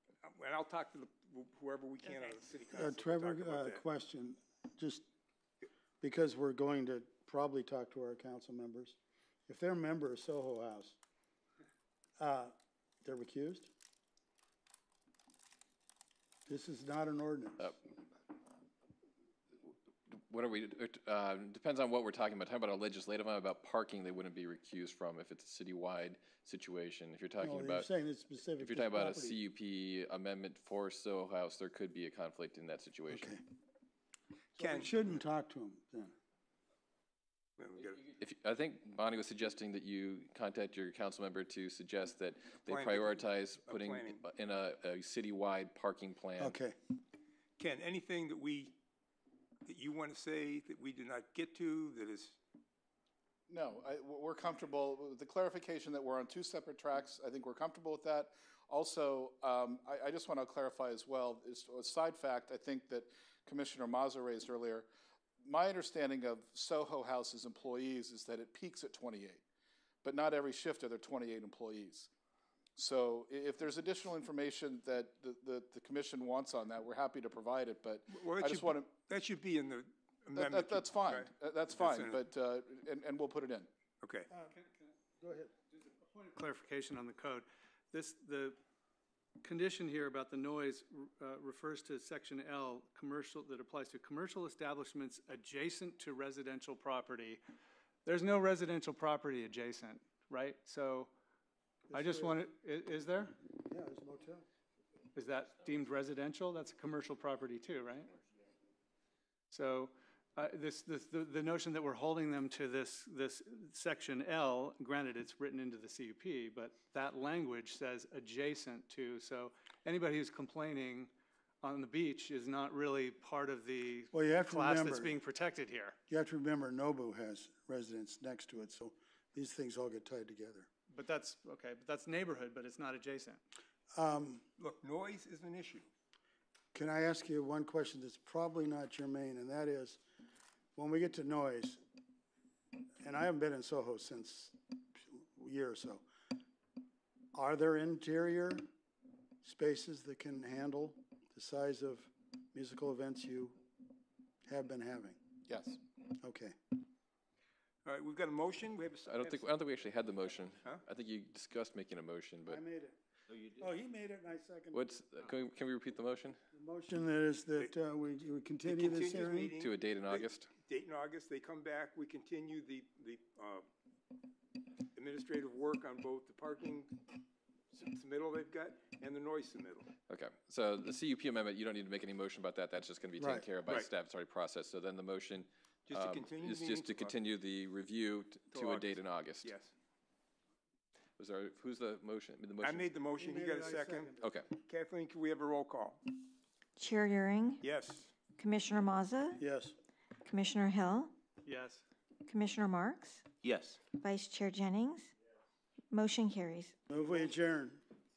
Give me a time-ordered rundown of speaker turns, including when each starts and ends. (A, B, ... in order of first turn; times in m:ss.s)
0:00.2-0:03.8 A
0:02.7-0:05.1 B
0:06.0-0:11.0 B
0:12.2-0:13.7 B
0:16.5-0:17.8 B
0:20.1-0:27.9 C
0:27.4-0:29.4 B
0:28.6-0:33.4 C
0:33.1-0:33.4 B
0:34.6-0:35.0 A
0:34.6-0:36.1 B
0:37.6-0:38.1 A
0:38.1-0:46.6 C
0:42.7-0:44.2 A
0:46.4-0:46.8 B
0:47.6-0:48.8 A
0:49.7-0:52.4 A
0:53.5-1:04.9 D
1:05.4-1:09.4 D
1:10.0-1:12.1 D
1:12.8-1:18.9 D
1:18.1-1:22.2 A
1:20.4-1:23.7 D
1:24.0-1:24.3 A
1:24.3-1:24.6 B
1:25.2-1:25.5 B
1:25.8-1:28.6 E
1:29.4-1:37.4 E
1:38.0-1:41.1 E
1:41.9-1:42.4 B
1:41.9-1:43.3 E
1:43.6-1:44.5 B
1:45.2-1:48.2 E
1:49.5-2:06.0 E
2:04.1-2:05.2 B
2:06.1-2:10.7 B
2:10.9-2:13.4 E
2:13.9-2:14.4 B
2:14.6-2:15.9 A
2:16.7-2:20.0 B
2:20.8-2:21.8 B
2:23.0-2:26.1 B
2:27.3-2:28.7 B
2:29.4-2:33.6 B
2:34.5-2:35.2 B
2:35.5-2:35.8 D
2:36.2-2:36.6 B
2:37.8-2:39.4 A
2:39.1-2:42.6 C
2:42.5-2:44.8 B
2:44.7-2:46.4 C
2:46.5-2:49.6 B
2:48.6-2:53.7 A
2:49.6-2:50.5 C
2:55.0-2:57.0 A
2:57.7-2:59.9 A
3:00.1-3:09.5 C
3:03.2-3:03.4 B
3:05.9-3:07.2 A
3:08.5-3:09.7 A
3:11.2-3:12.9 C
3:12.6-3:16.0 A
3:13.2-3:14.3 B
3:14.2-3:14.5 C
3:16.8-3:17.6 F
3:17.6-3:18.1 A
3:18.4-3:19.4 F
3:19.4-3:19.8 B
3:20.2-3:21.1 F
3:21.4-3:21.8 E
3:22.3-3:23.2 F
3:23.9-3:25.1 F
3:25.9-3:26.7 F
3:26.9-3:27.8 B